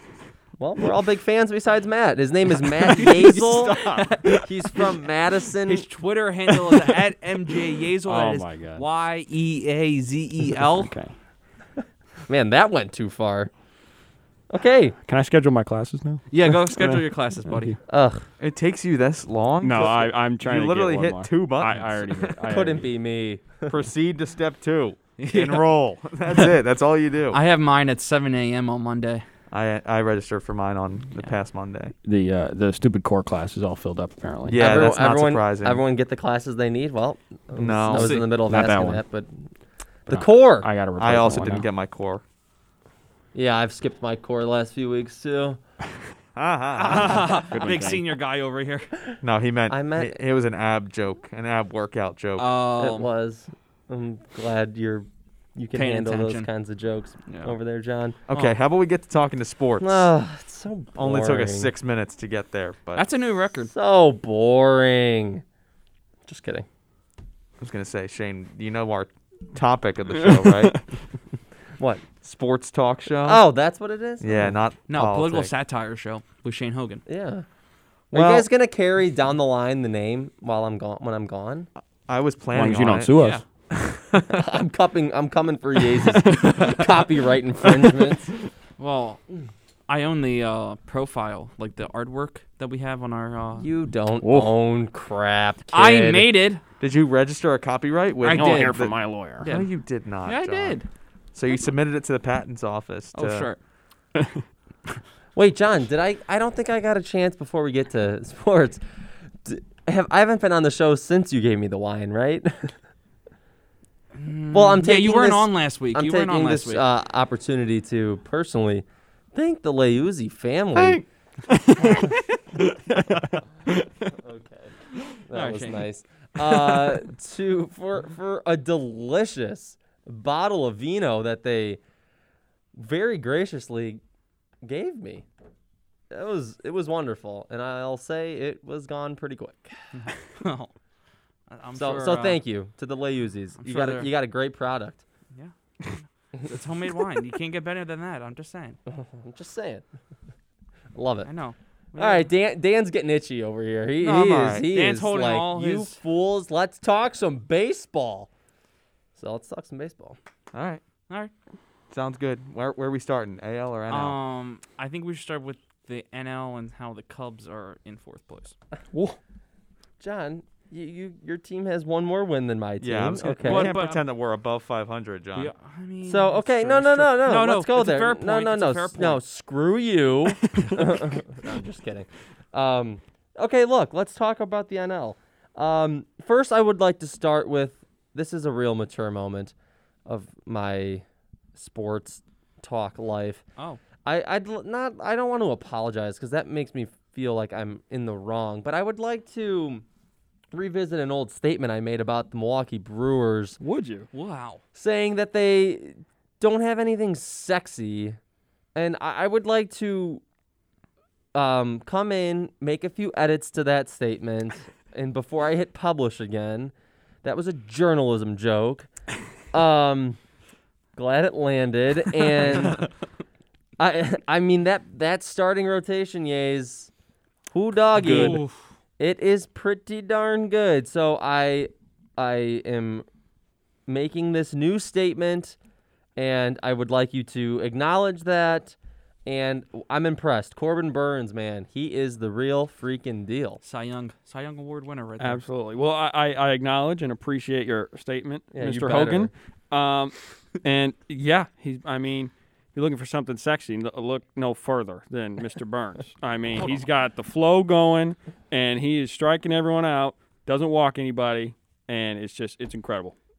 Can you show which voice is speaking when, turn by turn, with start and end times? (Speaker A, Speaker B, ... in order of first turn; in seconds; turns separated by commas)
Speaker A: 0.6-3.8, Speaker B: 2.9-4.9, Speaker C: 3.2-4.1, Speaker A: 4.3-5.8, Speaker B: 5.6-10.9, Speaker D: 8.0-8.8, Speaker D: 10.8-11.1, Speaker A: 12.3-13.5, Speaker A: 14.5-15.0, Speaker D: 15.1-17.0, Speaker B: 16.3-17.8, Speaker A: 17.9-18.3, Speaker C: 18.4-22.4, Speaker D: 19.6-22.9, Speaker A: 22.4-23.7, Speaker C: 23.7-27.4, Speaker B: 25.2-25.6, Speaker B: 27.3-29.2, Speaker C: 29.5-31.9, Speaker D: 32.0-34.7, Speaker C: 34.5-35.8, Speaker A: 34.6-39.3, Speaker C: 37.6-38.2, Speaker B: 37.9-38.2, Speaker D: 38.5-39.0, Speaker A: 40.1-40.7, Speaker D: 40.1-41.7, Speaker C: 41.0-42.2, Speaker A: 43.3-45.6, Speaker C: 46.4-47.1, Speaker B: 46.8-49.0, Speaker D: 47.0-48.0, Speaker C: 49.2-52.5, Speaker A: 49.7-50.2, Speaker B: 52.4-53.1, Speaker A: 52.8-58.2, Speaker B: 55.7-56.5, Speaker B: 57.3-57.5, Speaker C: 58.3-60.1, Speaker A: 59.8-61.7, Speaker C: 61.0-63.0, Speaker B: 63.0-63.7, Speaker A: 63.7-65.4, Speaker A: 66.3-66.7, Speaker C: 67.6-70.8, Speaker C: 72.2-73.4, Speaker A: 73.2-74.6, Speaker C: 74.2-75.5, Speaker B: 74.9-77.0, Speaker A: 77.1-77.5, Speaker C: 78.1-78.5, Speaker A: 78.1-81.7, Speaker C: 82.1-83.1, Speaker D: 82.5-83.4, Speaker B: 83.2-83.4, Speaker C: 83.7-84.5, Speaker A: 84.3-88.3, Speaker D: 86.2-86.8, Speaker B: 88.8-89.2, Speaker B: 89.9-93.7, Speaker A: 93.6-96.3, Speaker D: 94.2-94.5, Speaker B: 95.7-96.6, Speaker C: 96.8-100.8, Speaker B: 98.2-98.8, Speaker D: 98.3-99.5, Speaker B: 99.4-99.7, Speaker B: 100.2-100.9, Speaker C: 101.3-103.5, Speaker B: 103.1-103.6, Speaker D: 104.2-104.4, Speaker A: 105.3-108.8, Speaker A: 109.4-112.8, Speaker B: 114.2-116.8, Speaker A: 114.5-121.0, Speaker C: 120.8-121.0, Speaker D: 121.5-124.1, Speaker A: 124.1-131.8, Speaker B: 125.3-125.9, Speaker B: 126.6-126.9, Speaker A: 132.8-134.0, Speaker A: 134.6-135.3, Speaker A: 136.1-139.8, Speaker B: 139.9-140.7, Speaker B: 141.5-142.4, Speaker A: 141.7-145.0, Speaker B: 143.6-144.1, Speaker B: 145.3-148.8, Speaker A: 148.9-149.8, Speaker A: 150.9-151.3, Speaker B: 151.2-152.3, Speaker A: 152.0-158.3, Speaker C: 154.0-154.7, Speaker B: 154.3-156.0, Speaker A: 159.2-160.2, Speaker C: 160.5-160.8, Speaker C: 161.9-164.2, Speaker B: 163.9-168.6, Speaker A: 170.0-173.7, Speaker C: 172.8-175.5, Speaker B: 173.4-174.0, Speaker B: 175.3-179.2, Speaker A: 176.0-189.5, Speaker A: 190.1-193.4, Speaker A: 194.1-199.8, Speaker A: 200.5-203.6, Speaker D: 203.6-204.1, Speaker B: 204.1-204.6, Speaker A: 204.8-208.2, Speaker A: 208.8-210.2, Speaker A: 211.3-216.7, Speaker A: 217.2-218.9, Speaker A: 219.5-220.2, Speaker A: 220.9-222.9, Speaker A: 223.8-226.9, Speaker A: 227.5-228.4, Speaker D: 228.0-228.4, Speaker B: 228.0-228.6, Speaker A: 229.0-233.1, Speaker A: 233.9-235.6, Speaker A: 236.2-243.6, Speaker B: 243.6-245.4, Speaker D: 245.2-263.1, Speaker A: 248.5-249.3, Speaker B: 256.5-256.8